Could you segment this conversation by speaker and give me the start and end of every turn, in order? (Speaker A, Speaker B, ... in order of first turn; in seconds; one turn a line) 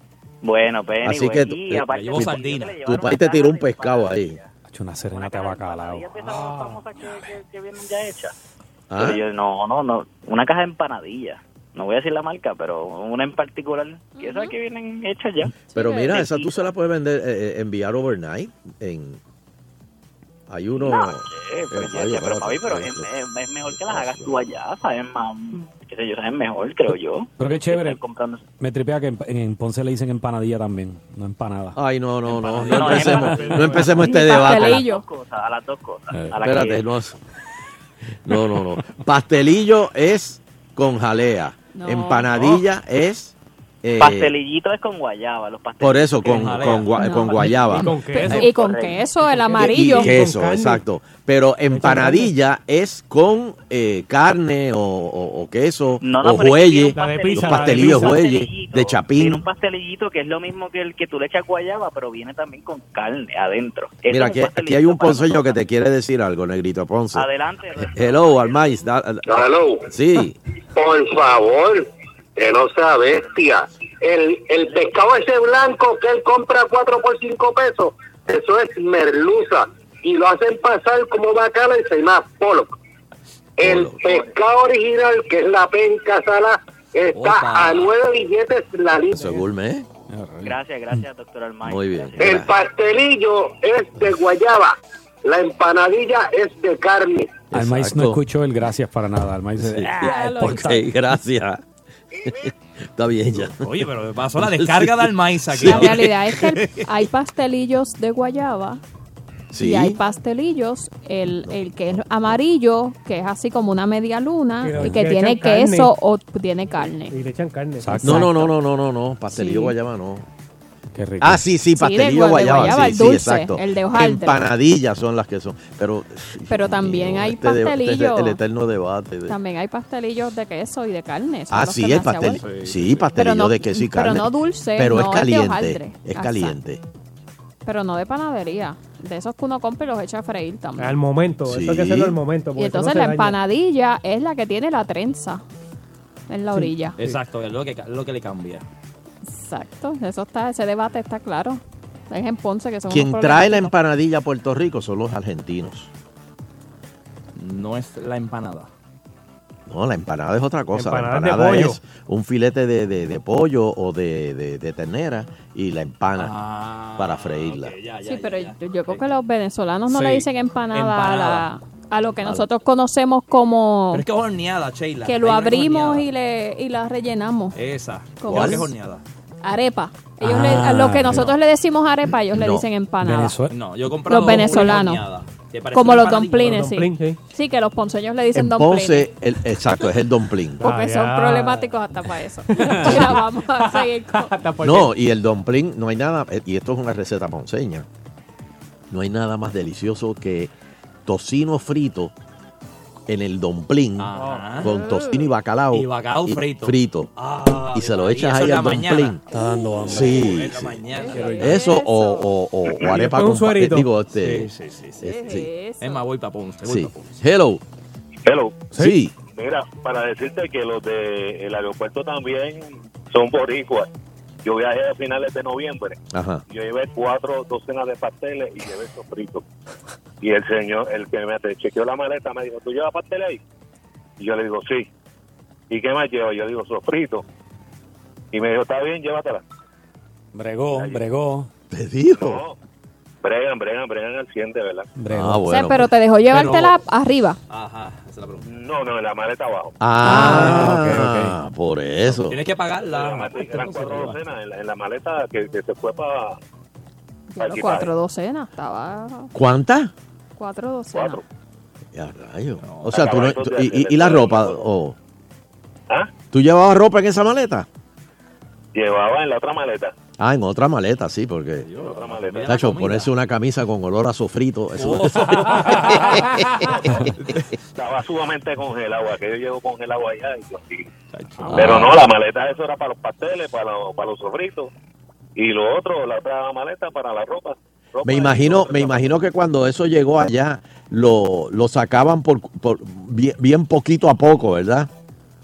Speaker A: 0.4-4.5
Speaker B: 1.0-4.4
Speaker C: 1.9-2.8
Speaker D: 4.7-6.5
Speaker A: 5.1-8.3
Speaker B: 8.9-9.2
Speaker A: 8.9-16.6
Speaker E: 14.2-14.5
Speaker E: 15.7-16.2
Speaker B: 15.7-19.2
Speaker B: 20.5-23.1
Speaker A: 20.8-28.4
Speaker B: 23.7-24.4
Speaker D: 27.4-28.0
Speaker D: 28.6-31.8
Speaker B: 31.8-34.8
Speaker C: 32.4-33.3
Speaker A: 32.5-36.8
Speaker D: 32.9-33.2
Speaker E: 34.0-35.0
Speaker B: 36.4-37.2
Speaker B: 38.3-44.3
Speaker E: 41.7-42.5
Speaker A: 44.0-47.5
Speaker B: 45.8-47.9
Speaker C: 46.2-47.7
Speaker E: 47.0-47.5
Speaker F: 47.7-48.5
Speaker E: 48.1-50.2
Speaker A: 48.3-49.0
Speaker F: 49.3-50.8
Speaker B: 49.6-59.4
Speaker F: 51.7-52.3
Speaker A: 56.0-65.5
Speaker F: 57.0-58.2
Speaker B: 64.1-67.3
Speaker A: 67.1-68.6
Speaker B: 67.8-70.4
Speaker G: 69.3-69.9
Speaker G: 70.8-71.9
Speaker G: 72.4-82.7
Speaker G: 83.6-89.3
Speaker B: 83.6-84.1
Speaker A: 84.0-84.3
Speaker C: 87.1-87.9
Speaker B: 89.2-89.9
Speaker D: 90.1-91.0
Speaker A: 90.4-92.1
Speaker B: 91.7-92.5
Speaker G: 92.2-97.4
Speaker B: 97.5-98.2
Speaker D: 97.5-100.7
Speaker B: 99.6-101.6
Speaker E: 100.0-100.8
Speaker B: 102.2-103.7
Speaker C: 103.4-106.1
Speaker B: 104.4-106.7
Speaker E: 105.6-108.8
Speaker B: 109.5-110.0
Speaker E: 109.6-117.2
Speaker B: 111.5-112.4
Speaker F: 114.6-115.9
Speaker F: 117.1-118.3
Speaker D: 117.8-118.4
Speaker B: 118.0-120.3
Speaker E: 119.3-119.7
Speaker D: 121.0-121.5
Speaker B: 121.2-129.4
Speaker E: 121.8-124.5
Speaker E: 126.5-128.4
Speaker E: 129.3-132.4
Speaker B: 131.5-136.8
Speaker C: 132.4-132.9
Speaker E: 133.2-136.6
Speaker E: 137.7-141.0
Speaker F: 140.8-143.4
Speaker B: 141.5-142.2
Speaker E: 142.6-145.4
Speaker E: 146.3-147.0
Speaker F: 146.6-147.2
Speaker C: 147.0-148.6
Speaker E: 149.2-153.7
Speaker B: 152.9-155.9
Speaker C: 157.4-158.7
Speaker B: 159.7-166.3
Speaker F: 160.7-161.8
Speaker C: 166.2-169.1
Speaker B: 167.0-167.8
Speaker E: 168.1-174.1
Speaker C: 169.9-171.5
Speaker C: 173.9-176.1
Speaker E: 175.1-177.6
Speaker C: 177.6-179.0
Speaker E: 178.2-178.7
Speaker B: 178.3-178.7
Speaker E: 179.4-183.4
Speaker D: 180.2-181.3
Speaker B: 182.3-182.7
Speaker D: 183.0-183.6
Speaker C: 183.5-186.6
Speaker E: 184.1-185.0
Speaker E: 185.7-189.1
Speaker F: 186.3-187.2
Speaker B: 188.3-190.6
Speaker F: 190.6-191.7
Speaker E: 190.6-194.3
Speaker F: 192.5-194.9
Speaker B: 194.6-197.9
Speaker B: 198.9-200.5
Speaker B: 201.1-202.1
Speaker B: 203.1-207.1
Speaker C: 204.0-204.7
Speaker F: 204.2-204.7
Speaker E: 204.7-205.2
Speaker C: 205.7-209.2
Speaker B: 207.7-209.2
Speaker D: 209.3-210.3
Speaker E: 209.3-209.7
Speaker B: 209.9-210.8
Speaker C: 209.9-211.6
Speaker E: 210.9-212.3
Speaker B: 211.4-214.5
Speaker F: 212.8-213.9
Speaker C: 214.1-215.2
Speaker B: 215.0-215.5
Speaker E: 215.0-216.0
Speaker C: 215.8-217.1
Speaker B: 216.6-217.6
Speaker H: 218.2-223.9
Speaker B: 218.8-219.1
Speaker H: 224.4-229.4
Speaker B: 226.1-226.4
Speaker H: 230.2-233.4
Speaker H: 234.2-234.9
Speaker H: 235.7-237.2
Speaker H: 238.3-239.4
Speaker D: 240.3-241.5
Speaker H: 240.7-241.0
Speaker B: 241.7-242.4
Speaker H: 242.2-242.6
Speaker H: 243.2-244.9
Speaker D: 245.0-245.4
Speaker B: 245.1-245.9
Speaker E: 245.5-247.4
Speaker C: 246.3-246.8
Speaker C: 247.5-248.4
Speaker H: 248.4-249.8
Speaker B: 249.8-252.4
Speaker D: 250.0-251.3
Speaker E: 250.1-250.6
Speaker C: 252.1-254.2
Speaker H: 252.9-256.4
Speaker E: 257.3-259.3
Speaker H: 257.4-257.9
Speaker B: 259.3-259.9
Speaker E: 260.4-261.2
Speaker H: 260.9-261.2
Speaker B: 261.9-265.0
Speaker C: 262.6-263.0
Speaker H: 262.9-264.6
Speaker B: 266.3-267.7
Speaker H: 268.8-269.9
Speaker B: 270.2-271.7
Speaker C: 271.6-273.1
Speaker H: 271.9-272.6
Speaker B: 272.4-277.1
Speaker C: 274.8-277.4
Speaker H: 277.8-280.9
Speaker C: 281.1-282.0
Speaker H: 281.5-284.7
Speaker B: 281.6-281.8
Speaker H: 285.4-289.2
Speaker B: 288.0-294.9